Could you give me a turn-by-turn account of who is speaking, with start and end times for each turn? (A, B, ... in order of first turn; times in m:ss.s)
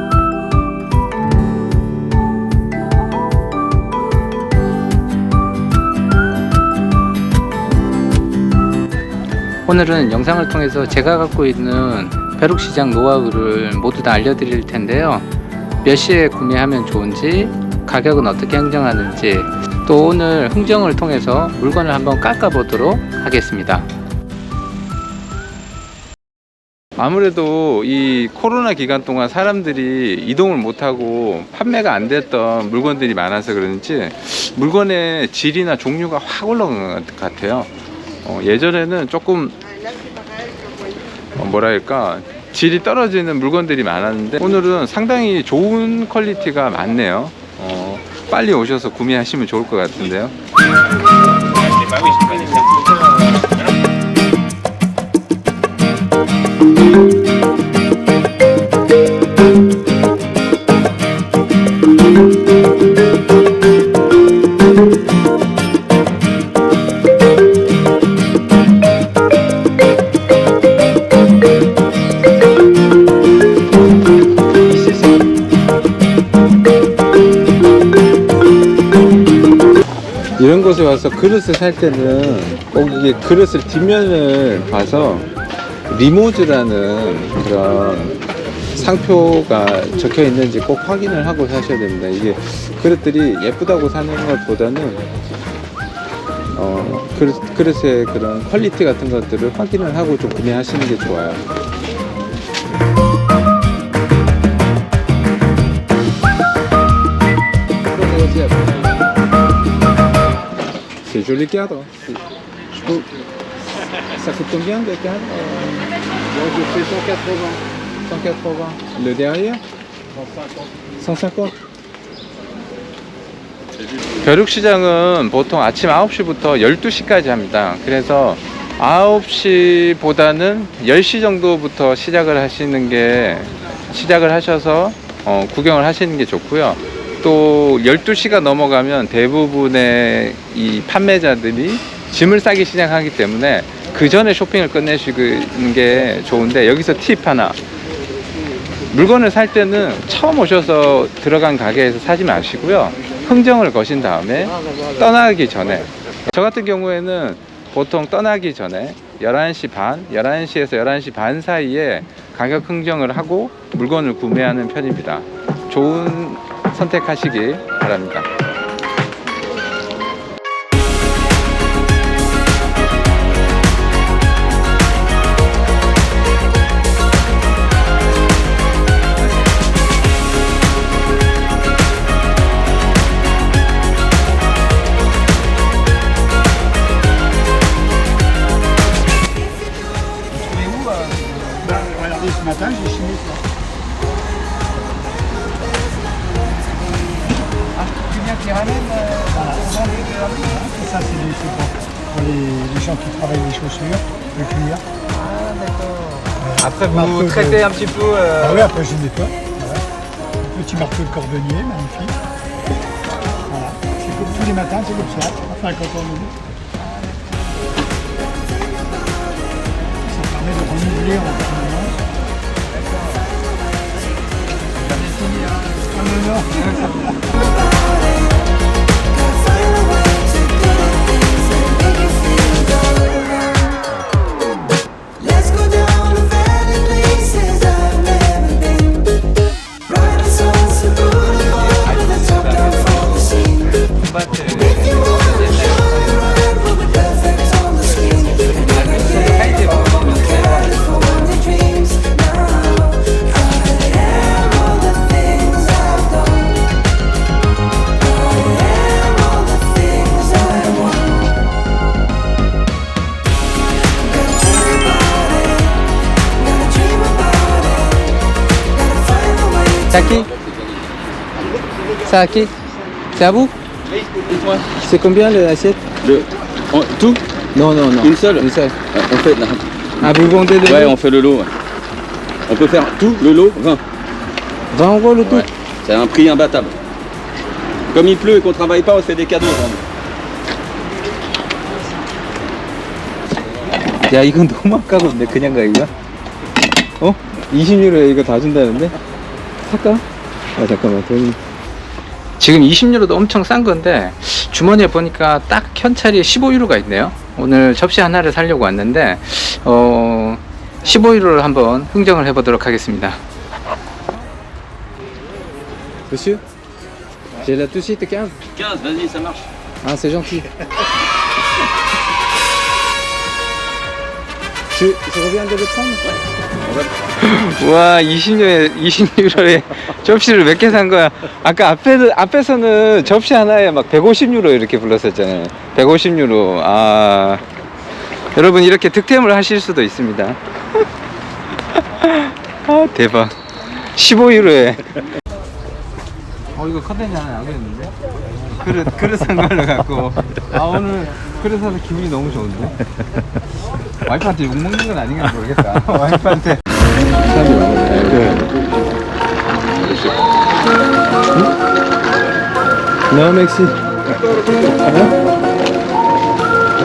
0:09.6-0:15.3 A
0:15.8-0:23.9 A
0:27.0-0:37.7 A
0:38.2-0:39.6 A
0:41.4-0:50.4 A
1:14.7-1:15.2 A
1:20.4-1:25.3 A
1:25.9-1:28.2 A
1:28.8-1:35.0 A
1:36.5-1:41.5 A
1:47.9-1:49.0 A
1:51.1-1:52.1 A
1:52.7-1:53.1 A
1:54.2-1:55.9 A
1:56.4-1:59.6 A
2:01.0-2:01.6 A
2:04.2-2:27.6 A
2:28.9-2:48.3 A
3:10.4-3:11.8 A
3:11.7-3:13.4 B
3:17.8-3:20.6 A
3:19.3-3:19.8 B
3:20.4-3:24.8 B
3:25.1-3:28.8 A
3:28.6-3:29.8 B
3:30.4-3:32.2 B
3:33.5-3:36.3 B
3:40.1-3:42.0 B
3:45.0-3:47.1 A
4:01.5-4:03.4 A
4:04.0-4:06.8 A
4:08.5-4:11.3 A
4:29.9-4:30.3 A
4:30.2-4:30.8 C
4:32.0-4:32.5 A
4:33.2-4:33.6 A
4:34.1-4:34.7 C
4:34.8-4:35.8 A
4:36.0-4:37.2 C
4:37.5-4:38.8 A
4:38.0-4:39.6 C
4:40.0-4:41.0 A
4:40.6-4:41.5 C
4:42.5-4:43.8 C
4:44.7-4:45.5 A
4:45.2-4:46.8 C
4:47.9-4:49.9 C
4:54.0-4:55.9 A
4:57.0-4:59.0 A
4:59.7-5:00.0 A
5:00.6-5:01.4 A
5:02.4-5:13.2 A
5:16.1-5:16.4 A
5:17.4-5:18.4 A
5:18.6-5:19.4 C
5:19.8-5:20.5 A
5:24.7-5:26.0 A
5:27.2-5:37.4 A
5:38.3-5:40.4 A
5:41.7-5:45.0 A
5:46.6-5:48.0 A
5:48.6-5:52.8 A
5:54.0-5:58.6 A
5:59.7-6:00.3 A
6:03.1-6:03.8 A
6:04.6-6:05.2 A